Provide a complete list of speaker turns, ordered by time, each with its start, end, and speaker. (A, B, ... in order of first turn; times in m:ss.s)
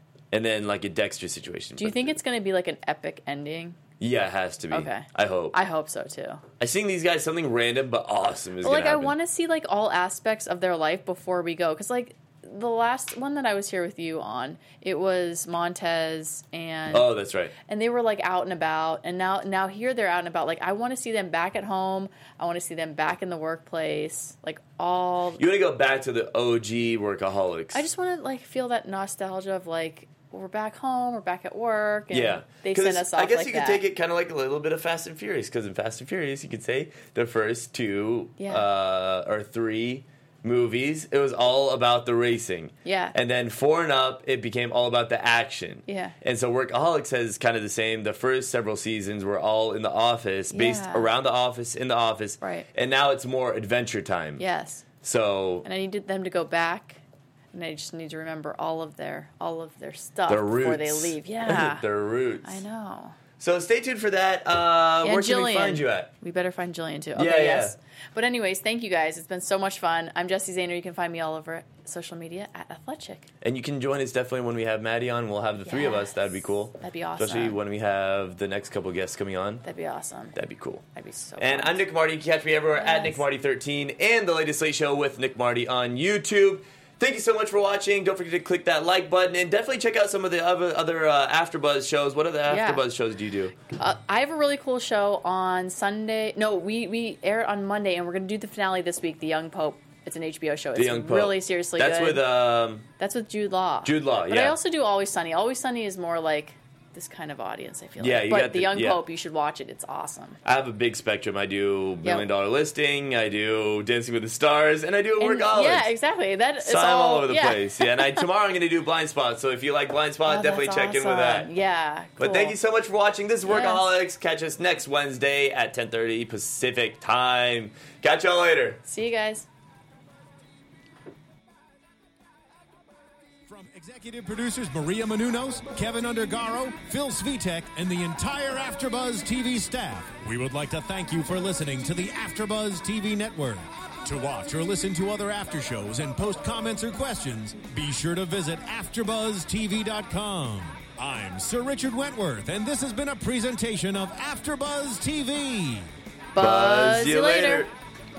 0:00.3-0:02.2 A
0:01.8-0:03.8 B
0:04.0-0:05.6 A
0:04.7-0:06.4 B
0:06.6-0:09.1 A
0:08.6-0:17.1 B
0:16.9-0:17.5 A
0:17.7-0:25.4 B
0:25.4-0:27.8 A
0:27.7-0:33.8 B
0:32.1-0:54.4 A
0:38.4-0:38.6 B
0:42.8-0:43.1 B
0:45.9-0:46.1 B
0:50.5-0:51.1 B
0:52.4-0:52.7 B
0:54.4-0:54.8 B
0:55.0-0:55.6 A
0:55.6-0:57.0 B
0:57.5-1:01.9 B
1:00.3-1:02.6 A
1:02.4-1:03.2 B
1:03.4-1:06.1 A
1:05.0-1:13.3 B
1:07.1-1:07.7 A
1:13.4-1:19.6 A
1:15.6-1:16.2 B
1:16.8-1:17.6 B
1:19.6-1:20.3 B
1:20.3-1:20.8 A
1:20.9-1:21.8 B
1:21.4-1:33.5 A
1:22.7-1:23.2 B
1:32.5-1:32.8 B
1:33.7-1:42.3 B
1:40.8-1:42.8 A
1:43.0-1:50.4 B
1:43.8-1:44.6 A
1:48.0-1:49.0 A
1:50.4-1:55.9 A
1:55.2-1:58.3 B
1:56.6-2:01.5 A
2:00.2-2:02.6 B
2:02.2-2:08.8 A
2:03.4-2:03.8 B
2:08.8-2:09.4 B
2:13.5-2:35.9 C
2:36.3-2:37.7 B
2:36.4-2:37.7 A